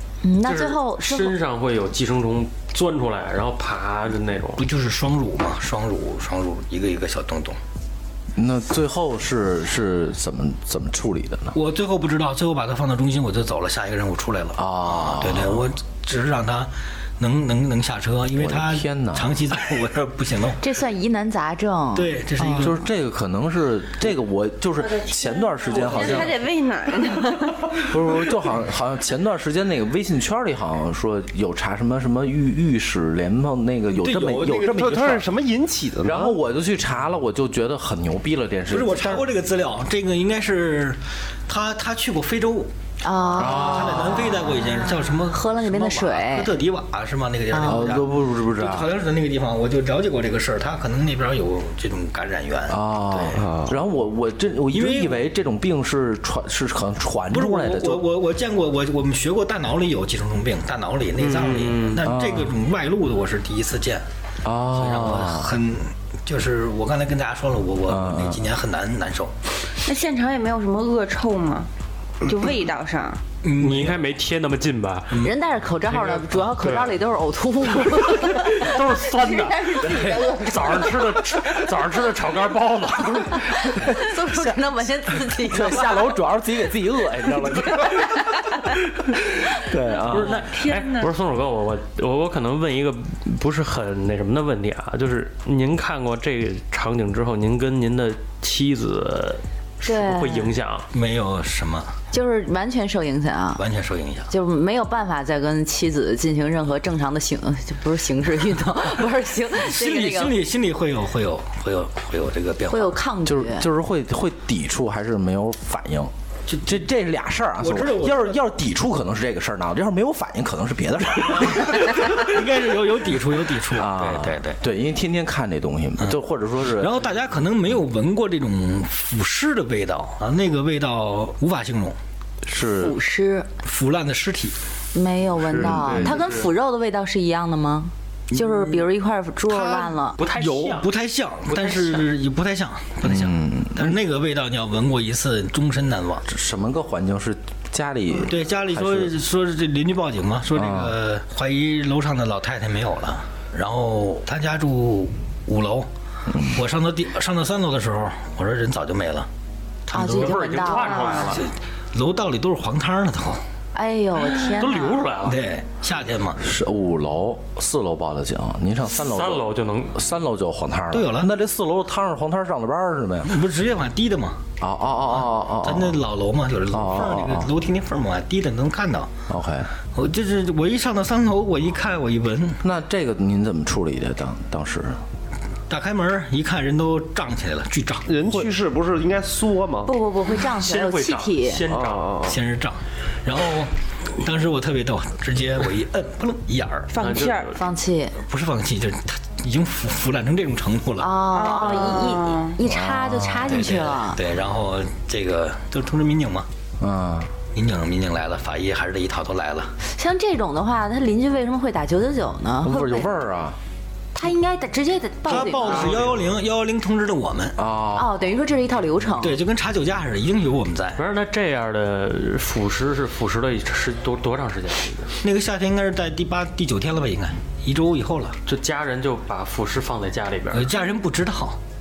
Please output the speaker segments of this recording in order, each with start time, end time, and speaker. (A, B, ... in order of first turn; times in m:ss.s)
0:00.2-0:01.4 A
0:00.4-0:04.6 B
0:04.6-0:07.6 C
0:08.3-0:11.6 D
0:11.5-0:20.6 C
0:14.6-0:15.6 D
0:18.3-0:19.3 D
0:20.6-0:22.7 A
0:21.9-0:22.8 C
0:22.5-0:26.4 D
0:24.9-0:27.8 E
0:27.8-0:35.3 D
0:34.0-0:35.0 C
0:34.7-0:36.3 F
0:36.0-0:39.3 D
0:38.7-0:42.7 C
0:43.0-0:46.5 A
0:43.4-0:53.4 C
0:43.4-0:44.3 D
0:47.5-0:48.0 A
0:47.6-0:48.9 D
0:52.7-0:58.1 D
0:53.3-0:53.8 F
0:54.7-0:55.2 C
0:57.3-1:04.0 C
1:01.2-1:02.0 B
1:02.0-1:02.6 D
1:04.4-1:05.5 D
1:04.7-1:09.3 C
1:07.9-1:08.4 D
1:09.8-1:11.7 E
1:12.2-1:13.2 E
1:13.4-1:14.0 C
1:13.6-1:15.2 B
1:15.2-1:18.8 A
1:16.0-1:17.0 B
1:17.8-1:23.7 B
1:19.3-1:21.0 E
1:23.3-1:26.2 A
1:23.8-1:24.6 D
1:25.1-1:28.4 D
1:27.7-1:28.5 A
1:29.5-1:30.4 D
1:30.1-1:40.9 B
1:30.1-1:31.1 E
1:39.8-1:40.5 A
1:40.9-1:41.9 C
1:42.1-1:43.6 A
1:43.6-1:44.3 C
1:44.3-1:50.4 A
1:49.5-1:53.0 C
1:52.7-1:53.7 A
1:53.2-1:56.1 D
1:56.5-1:56.8 C
1:56.6-2:02.2 D
1:57.6-1:58.4 C
2:01.5-2:04.6 C
2:03.7-2:07.0 D
2:06.0-2:12.0 C
2:12.4-2:13.0 D
2:12.7-2:13.5 A
2:13.6-2:14.6 C
2:14.9-2:20.2 A
2:15.5-2:16.2 D
2:15.6-2:16.5 B
2:18.3-2:18.8 C
2:19.5-2:26.2 C
2:20.2-2:20.9 B
2:21.5-2:22.1 B
2:23.0-2:24.0 D
2:26.2-2:29.1 D
2:28.2-2:35.9 C
2:30.5-2:31.0 D
2:36.3-2:36.6 D
2:36.4-2:39.3 C
2:39.9-2:40.4 C
2:39.9-2:41.4 A
2:40.0-2:41.5 B
2:41.2-2:43.4 C
2:43.7-2:45.1 A
2:44.4-2:45.4 B
2:45.2-2:46.4 C
2:46.4-2:53.3 D
2:49.0-2:50.0 B
2:50.9-2:51.3 C
2:53.2-2:54.4 C
2:54.6-2:56.0 D
2:55.1-2:59.1 C
2:56.7-2:57.5 D
2:59.3-2:59.7 D
2:59.9-3:02.6 C
3:02.6-3:05.0 D
3:05.7-3:08.5 C
3:08.1-3:09.9 F
3:09.8-3:11.6 A
3:10.4-3:12.2 B
3:11.7-3:12.4 F
3:12.2-3:16.9 C
3:16.9-3:17.6 E
3:17.0-3:17.5 B
3:17.5-3:18.2 A
3:18.2-3:21.2 C
3:21.0-3:24.2 A
3:21.3-3:22.6 E
3:22.6-3:23.7 D
3:23.5-3:26.5 C
3:26.8-3:27.3 D
3:27.5-3:29.7 C
3:29.8-3:33.0 A
3:32.6-3:33.6 D
3:34.1-3:36.0 A
3:35.2-3:37.6 C
3:35.3-3:36.2 B
3:37.6-3:38.1 D
3:37.9-3:39.4 A
3:39.2-3:41.0 C
3:41.0-3:45.2 B
3:45.2-3:48.4 C
3:48.4-3:50.7 B
3:50.5-3:51.6 C